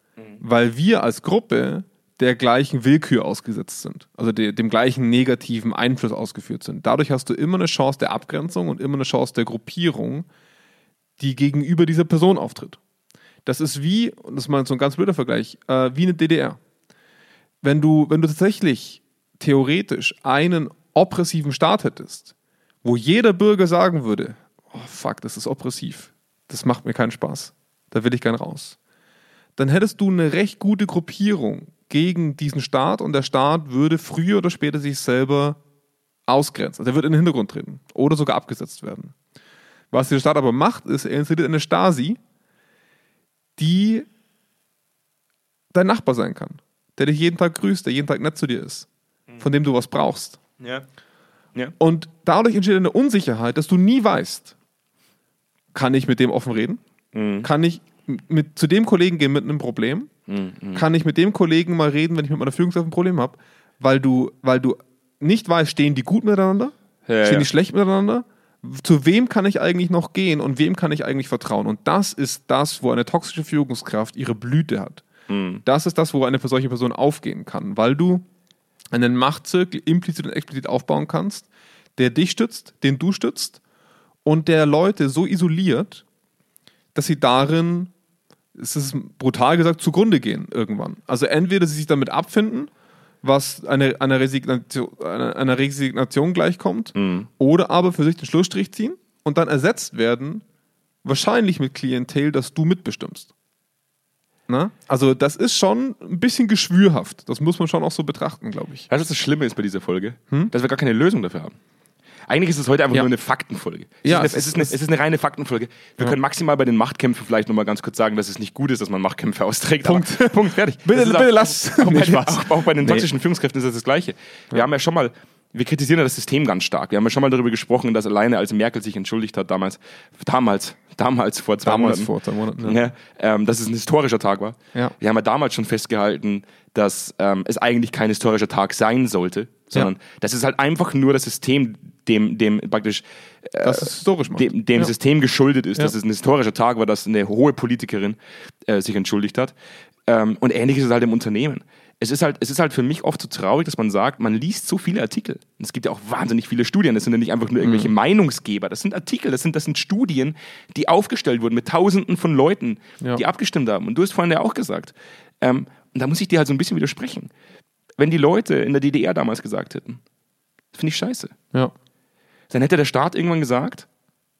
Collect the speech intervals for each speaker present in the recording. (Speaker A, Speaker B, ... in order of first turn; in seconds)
Speaker A: 0.4-10.3, 11.2-12.8, 13.4-16.6, 17.6-22.3, 22.8-28.8, 29.6-35.6, 36.3-39.1, 39.9-42.2, 43.6-44.1, 45.7-48.9, 49.4-50.4, 51.8-54.5, 55.7-56.8, 57.4-60.1, 60.7-75.0, 75.6-78.2, 78.9-81.5, 82.0-83.6, 84.2-86.0, 87.0-87.9, 88.5-92.7, 93.2-100.4, 101.0-103.3, 104.5-108.9, 114.0-114.7, 119.8-123.1, 131.6-132.8, 143.6-144.9, 157.6-157.9
Speaker B: 50.6-50.9, 57.1-57.5, 60.3-60.8, 67.1-67.5, 75.3-75.6, 97.0-97.3, 108.9-111.6, 112.3-149.5, 150.1-167.3, 168.0-170.0, 170.7-171.3, 172.5-173.9